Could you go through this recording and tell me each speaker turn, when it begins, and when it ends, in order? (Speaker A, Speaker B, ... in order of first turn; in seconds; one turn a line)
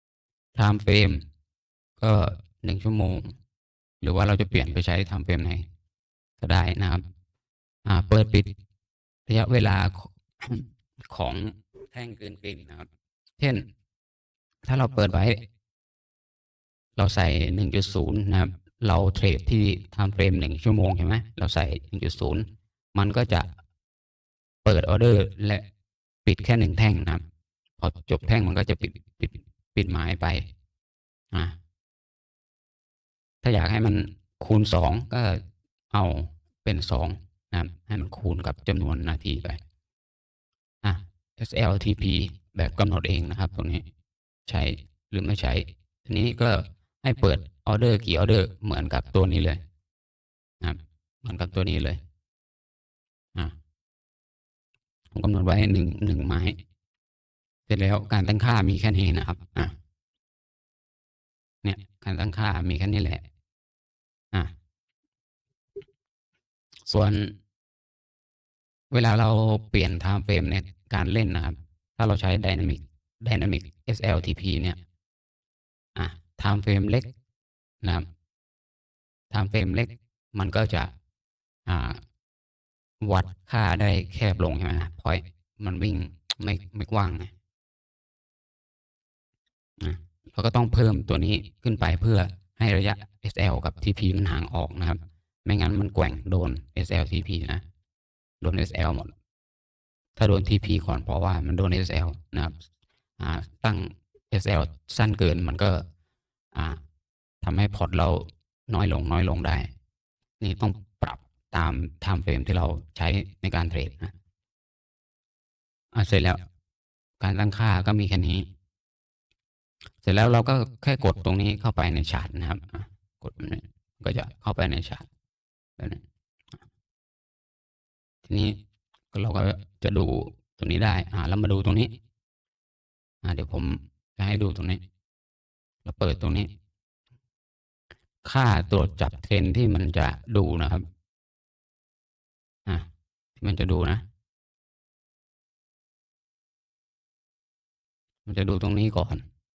Speaker A: 0.6-1.2
Speaker A: 2.0-3.3
Speaker A: 4.0-5.7
Speaker A: 6.4-7.0
Speaker A: 7.9-8.5
Speaker A: 9.3-12.9
Speaker A: 13.4-13.7
Speaker A: 14.7-15.4
Speaker A: 17.0-23.5
Speaker A: 24.6-25.6
Speaker A: 26.2-27.2
Speaker A: 27.8-30.5
Speaker A: 33.4-39.6
Speaker A: 40.8-43.8
Speaker A: 44.5-49.6
Speaker A: 50.6-52.0
Speaker A: 55.1-56.6
Speaker A: 57.7-59.7
Speaker A: 61.6-63.2
Speaker A: 66.9-67.4
Speaker A: 68.9-74.8
Speaker A: 76.0-77.1
Speaker A: 79.3-80.9
Speaker A: 81.7-82.0
Speaker A: 83.0-87.3
Speaker A: 89.8-97.6
Speaker A: 98.4-99.1
Speaker A: 100.2-102.5
Speaker A: 103.2-105.8
Speaker A: 106.5-106.8
Speaker A: 107.4-109.7
Speaker A: 110.4-114.1
Speaker A: 115.9-116.4
Speaker A: 117.2-118.5
Speaker A: 120.0-125.1
Speaker A: 128.2-128.6
Speaker A: 129.1-132.0
Speaker A: 133.2-134.8
Speaker A: 135.8-136.5
Speaker A: 138.2-140.8
Speaker A: 143.4-144.0
Speaker A: 148.3-149.2